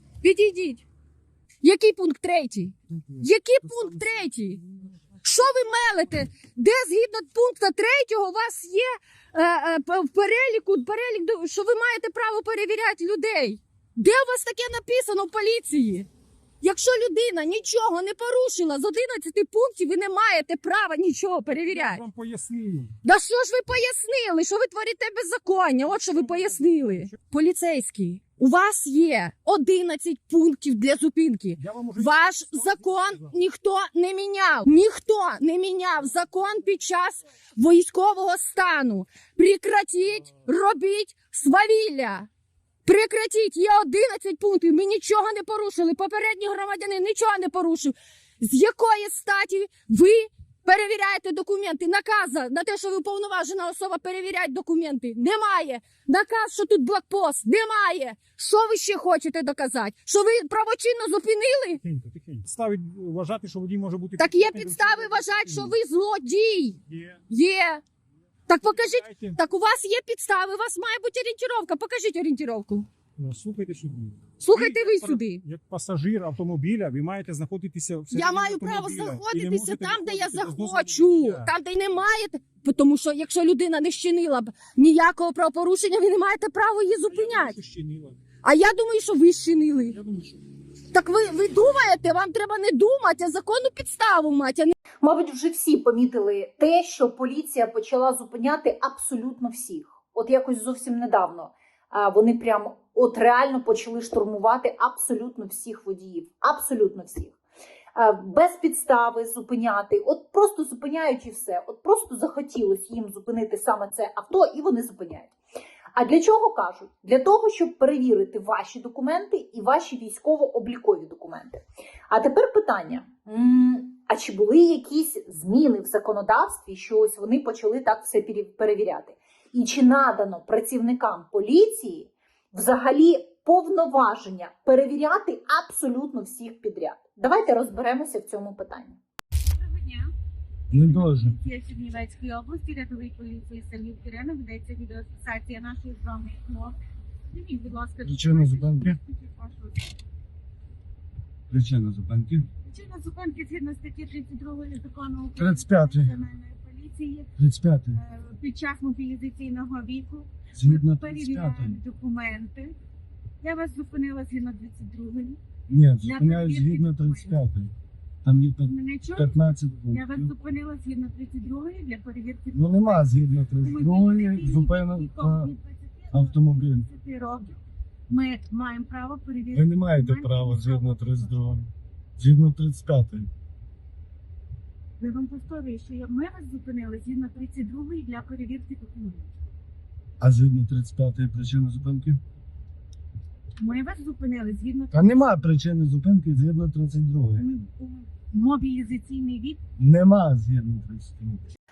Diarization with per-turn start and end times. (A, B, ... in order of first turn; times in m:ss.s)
0:00.2-0:00.8 A
0:01.6-0:04.6 A
0:02.9-0:03.3 B
0:05.2-0:16.1 A
0:16.6-0:22.0 A
0:21.6-0:22.9 B
0:23.0-0:42.3 A
0:26.4-0:27.1 B
0:31.6-0:33.3 B
0:42.8-1:01.8 A
1:01.8-1:05.7 B
1:04.2-1:07.8 A
1:06.8-1:07.2 B
1:08.5-1:12.9 A
1:08.8-1:09.4 B
1:13.2-1:21.5 B
1:14.4-1:15.4 A
1:18.1-1:27.6 A
1:27.1-1:28.2 B
1:28.4-1:30.0 A
1:29.9-1:30.4 B
1:30.9-1:34.7 A
1:35.0-1:47.3 C
1:47.9-1:55.3 C
1:55.9-2:19.0 C
2:19.4-2:20.1 D
2:20.7-2:21.4 E
2:20.8-2:26.8 D
2:27.3-2:30.0 D
2:28.0-2:29.0 E
2:31.5-2:32.5 E
2:32.6-2:37.3 D
2:35.4-2:36.1 E
2:37.4-2:38.0 E
2:37.9-2:42.7 D
2:40.5-2:41.8 E
2:43.4-2:45.4 D
2:45.7-2:47.7 E
2:46.0-2:47.3 D
2:48.2-2:50.3 E
2:48.6-2:49.3 D
2:49.9-2:52.9 D
2:52.5-2:55.5 E
2:53.6-2:57.6 D
2:56.1-2:56.9 E
2:58.1-3:01.3 D
2:59.5-3:03.3 E
3:05.0-3:09.3 D
3:10.2-3:12.2 E
3:13.6-3:15.2 D
3:14.9-3:17.5 E
3:17.4-3:19.6 D
3:19.8-3:21.4 E